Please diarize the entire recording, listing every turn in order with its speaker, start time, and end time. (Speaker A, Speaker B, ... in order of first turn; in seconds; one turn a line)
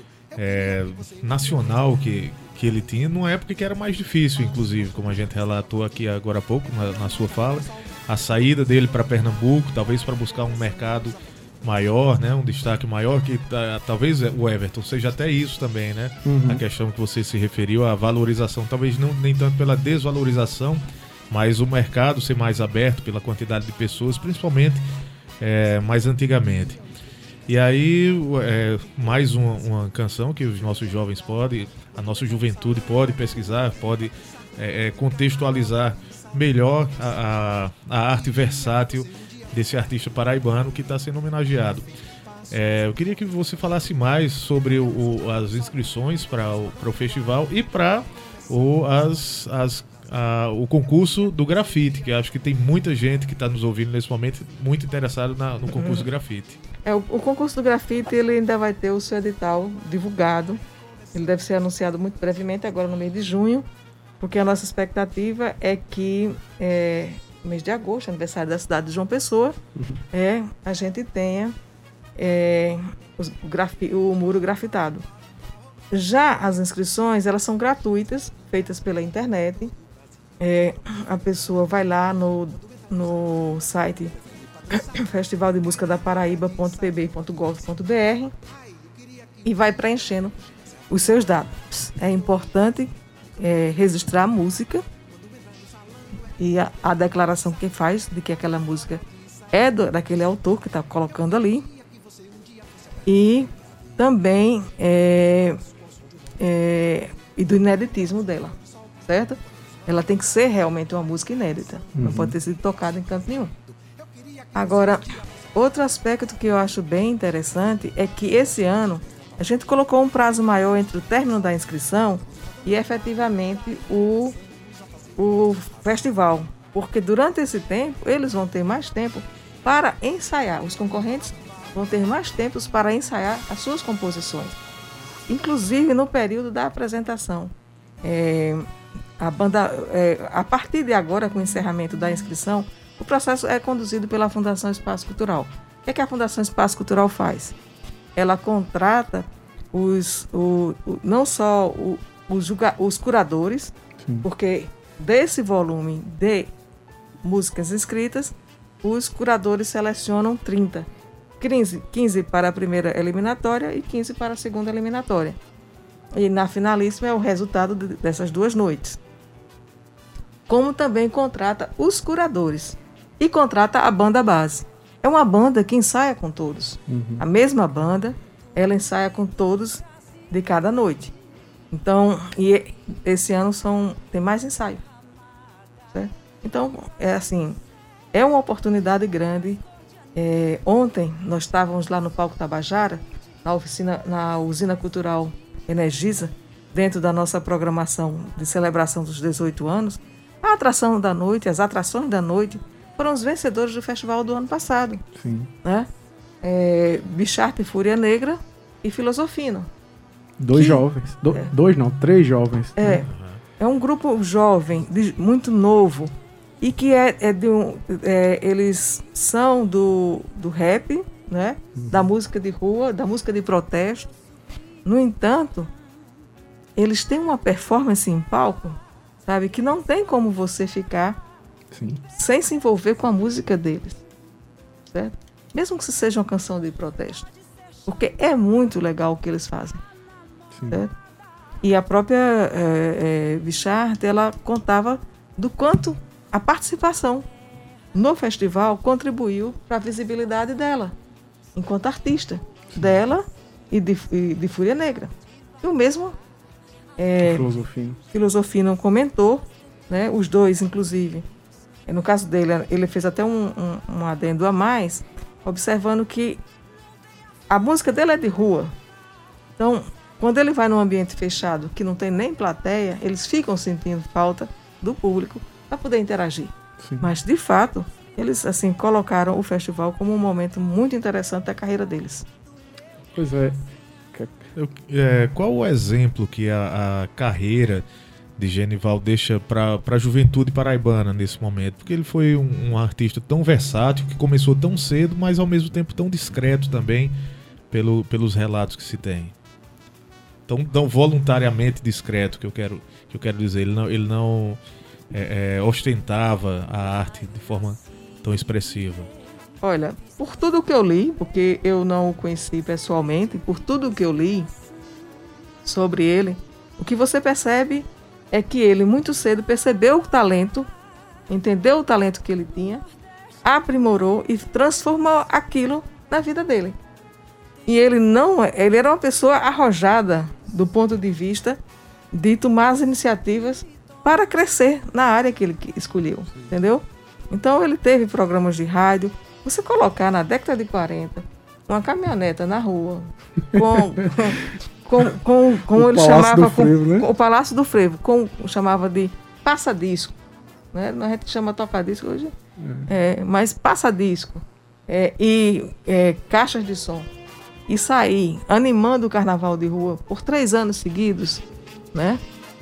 Speaker A: 0.3-24.9
Speaker B: 16.2-16.6
Speaker A: 25.4-26.8
Speaker A: 27.5-41.9
Speaker A: 42.5-56.6
Speaker C: 55.8-56.1
Speaker C: 56.9-60.6
Speaker C: 61.1-63.7
Speaker C: 64.2-69.6
Speaker C: 70.1-71.5
Speaker C: 72.2-75.0
Speaker C: 75.9-79.7
Speaker C: 80.4-84.1
Speaker C: 84.7-88.3
Speaker C: 89.5-90.3
Speaker C: 90.9-94.8
Speaker C: 96.4-101.7
Speaker C: 103.1-105.6
Speaker C: 106.4-113.5
Speaker B: 112.0-112.4
Speaker C: 114.5-124.4
Speaker C: 125.2-134.6
Speaker C: 135.3-147.6
Speaker C: 148.2-156.5
Speaker C: 157.2-160.9
Speaker C: 161.4-165.4
Speaker C: 166.2-169.0
Speaker C: 170.5-181.1
Speaker B: 176.9-177.2
Speaker C: 181.7-184.8
Speaker C: 185.9-187.6
Speaker C: 188.1-189.6
Speaker C: 190.2-205.0
Speaker B: 205.2-205.5
Speaker C: 205.6-205.9
Speaker C: 206.4-209.7
Speaker B: 210.4-213.1
Speaker C: 210.5-211.5
Speaker C: 212.8-224.1
Speaker A: 213.1-213.4
Speaker B: 221.8-222.1
Speaker C: 224.8-225.7
Speaker C: 226.8-231.2
Speaker B: 231.7-232.0
Speaker C: 232.2-234.0
Speaker C: 234.9-237.3
Speaker C: 237.9-239.8
Speaker B: 240.5-240.8
Speaker C: 241.6-247.3
Speaker C: 247.9-250.9
Speaker C: 251.6-256.2
Speaker B: 252.7-253.0
Speaker C: 257.0-257.5
Speaker B: 257.2-258.0
Speaker C: 258.1-261.3
Speaker C: 261.9-266.4
Speaker C: 267.5-268.7
Speaker C: 269.6-282.3
Speaker B: 276.8-277.1
Speaker B: 283.1-283.6
Speaker B: 284.1-284.5
Speaker A: 284.6-287.9
Speaker A: 288.4-297.1
Speaker A: 297.7-299.3
Speaker A: 300.5-304.6
Speaker A: 305.1-309.1
Speaker C: 309.6-314.5
Speaker C: 315.6-320.7
Speaker C: 321.3-322.8
Speaker C: 323.4-326.8
Speaker C: 327.7-331.6
Speaker C: 332.1-350.2
Speaker B: 343.6-344.0
Speaker B: 345.7-347.1
Speaker C: 350.7-352.3
Speaker B: 352.6-352.9
Speaker C: 352.9-357.1
Speaker C: 357.7-361.4
Speaker C: 361.9-362.2